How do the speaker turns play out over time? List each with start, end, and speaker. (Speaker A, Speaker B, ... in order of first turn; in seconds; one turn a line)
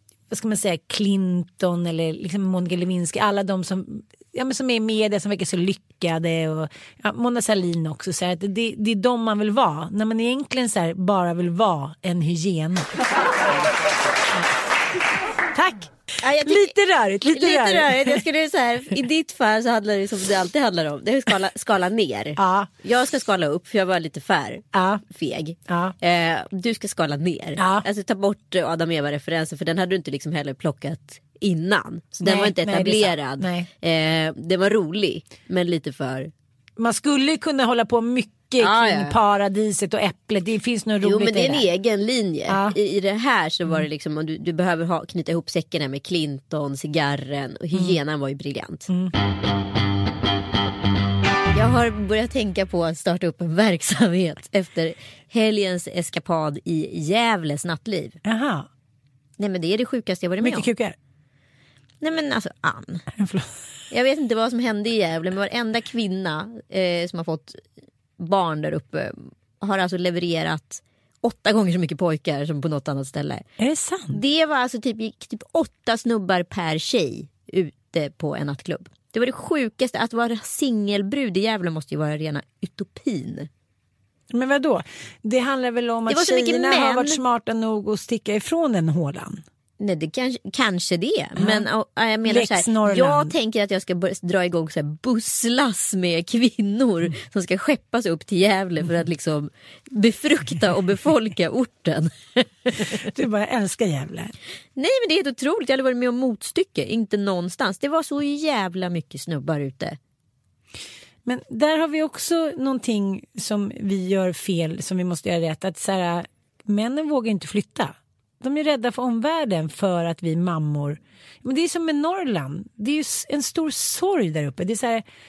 Speaker A: 0.3-13.0
Speaker A: 15.5-18.2
Speaker B: 16.2-16.8
Speaker B: 17.3-36.3
Speaker A: 22.4-22.7
Speaker A: 24.7-25.0
Speaker A: 25.7-25.9
Speaker A: 27.6-27.8
Speaker A: 32.2-33.7
Speaker A: 36.8-41.6
Speaker B: 38.6-39.2
Speaker B: 41.0-48.9
Speaker A: 42.5-42.8
Speaker A: 48.9-49.1
Speaker B: 51.5-58.2
Speaker A: 58.2-58.7
Speaker B: 59.4-60.7
Speaker A: 60.4-61.0
Speaker B: 62.0-63.1
Speaker A: 63.1-63.5
Speaker B: 63.9-67.6
Speaker B: 68.2-73.4
Speaker A: 73.6-74.2
Speaker B: 74.1-83.5
Speaker A: 84.3-89.4
Speaker B: 86.1-87.2
Speaker B: 89.8-103.0
Speaker A: 91.4-91.7
Speaker A: 92.3-93.3
Speaker A: 103.0-104.3
Speaker B: 104.8-110.0
Speaker A: 111.2-125.0